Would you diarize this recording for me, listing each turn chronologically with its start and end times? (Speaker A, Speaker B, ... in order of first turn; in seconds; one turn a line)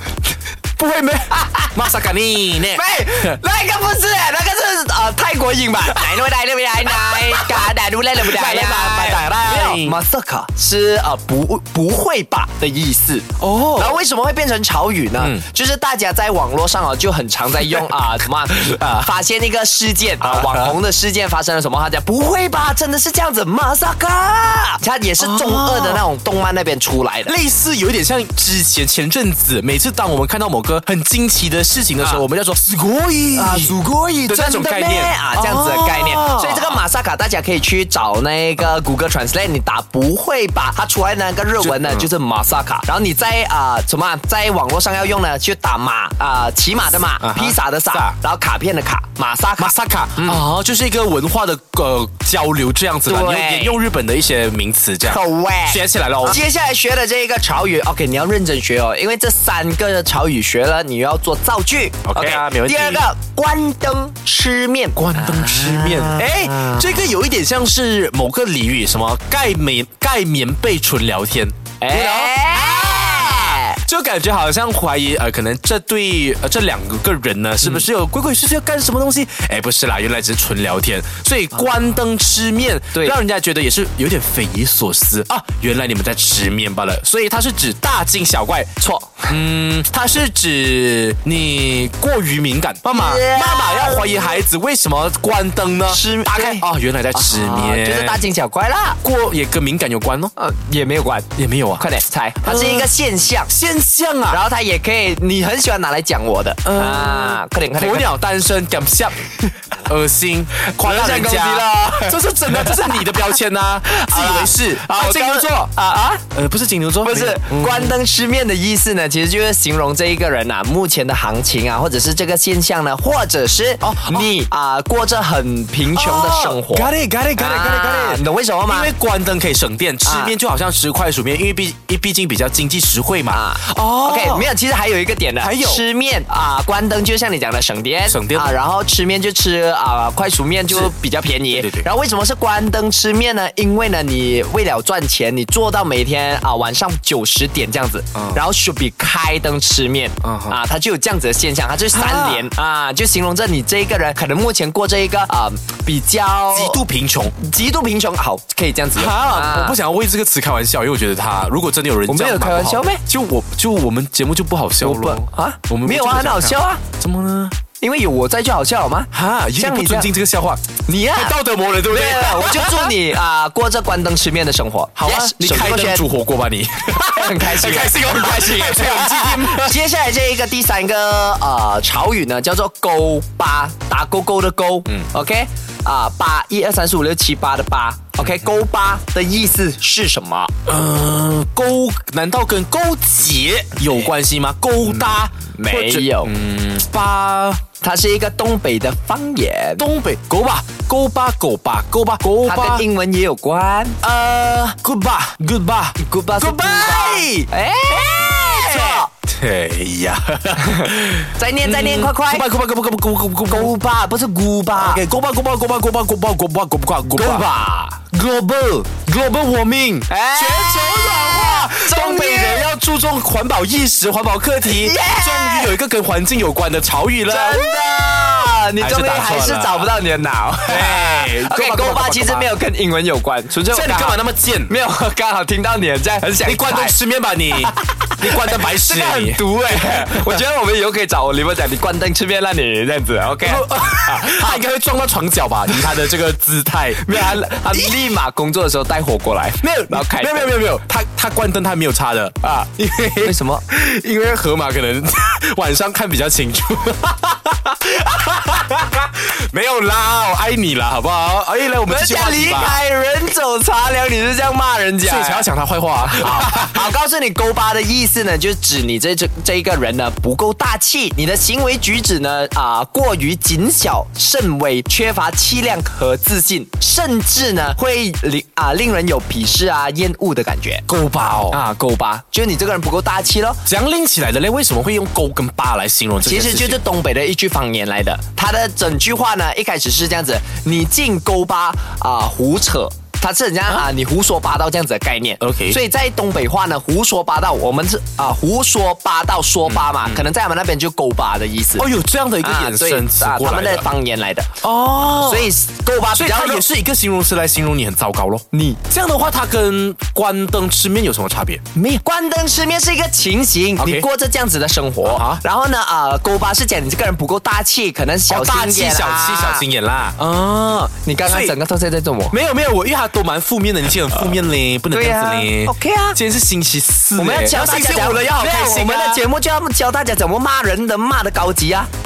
Speaker A: 0.8-3.4
Speaker B: 2.7-27.3
Speaker A: 6.8-7.7
Speaker A: 8.2-10.0
Speaker A: 13.4-14.0
Speaker A: 15.2-15.4
Speaker A: 18.6-18.9
Speaker A: 20.2-20.8
Speaker A: 25.2-26.1
Speaker A: 27.2-36.8
Speaker B: 33.3-50.4
Speaker A: 41.6-42.1
Speaker A: 47.2-48.1
Speaker A: 49.6-56.4
Speaker B: 53.0-53.8
Speaker B: 55.0-67.0
Speaker A: 62.0-63.0
Speaker A: 64.9-88.7
Speaker B: 71.8-73.8
Speaker B: 88.8-89.4
Speaker A: 89.3-98.3
Speaker B: 92.9-94.4
Speaker B: 95.9-99.0
Speaker A: 99.0-100.3
Speaker B: 100.3-103.5
Speaker A: 101.3-101.8
Speaker A: 102.4-102.9
Speaker A: 103.5-104.4
Speaker B: 104.3-108.1
Speaker A: 106.6-115.7
Speaker B: 110.6-113.3
Speaker B: 113.9-116.2
Speaker A: 116.3-118.0
Speaker B: 117.0-128.9
Speaker A: 123.8-124.3
Speaker A: 125.9-134.5
Speaker B: 130.0-130.3
Speaker B: 133.3-156.8
Speaker A: 135.4-135.8
Speaker A: 138.1-138.6
Speaker A: 140.7-140.9
Speaker A: 141.5-141.9
Speaker A: 148.1-148.4
Speaker A: 150.2-150.6
Speaker A: 151.9-152.5
Speaker A: 156.5-157.3
Speaker B: 157.4-159.8
Speaker A: 158.9-167.5
Speaker B: 162.1-163.0
Speaker B: 164.8-166.8
Speaker B: 167.8-170.1
Speaker A: 169.1-173.0
Speaker B: 170.8-176.0
Speaker A: 174.9-179.8
Speaker B: 177.0-190.5
Speaker A: 188.2-188.5
Speaker A: 190.7-197.6
Speaker B: 195.5-196.3
Speaker B: 197.8-199.8
Speaker A: 199.8-202.8
Speaker B: 202.4-204.1
Speaker A: 204.0-207.5
Speaker B: 206.0-209.1
Speaker A: 208.0-213.7
Speaker B: 210.6-212.4
Speaker B: 213.4-215.0
Speaker A: 214.7-217.4
Speaker B: 217.1-218.1
Speaker A: 218.1-227.8
Speaker B: 220.1-222.7
Speaker B: 224.7-225.7
Speaker B: 227.3-236.9
Speaker A: 228.8-229.9
Speaker A: 230.6-232.5
Speaker A: 233.7-234.7
Speaker A: 236.4-240.4
Speaker B: 238.2-244.6
Speaker A: 243.3-248.0
Speaker B: 247.0-250.5
Speaker A: 249.6-262.8
Speaker B: 252.4-252.7
Speaker B: 253.2-253.6
Speaker B: 261.8-265.5
Speaker A: 265.0-266.9
Speaker B: 266.1-280.8
Speaker A: 280.9-281.6
Speaker B: 281.5-283.6
Speaker A: 283.6-286.8
Speaker B: 286.2-304.6
Speaker A: 295.4-295.8
Speaker A: 299.6-300.2
Speaker A: 301.8-303.9
Speaker A: 304.6-305.5
Speaker B: 305.1-306.6
Speaker A: 306.1-311.6
Speaker B: 308.5-308.8
Speaker B: 311.7-319.6
Speaker A: 313.8-314.1
Speaker A: 315.0-315.4
Speaker A: 318.3-321.5
Speaker B: 320.9-322.4
Speaker A: 322.3-329.2
Speaker B: 324.9-326.2
Speaker B: 327.2-331.9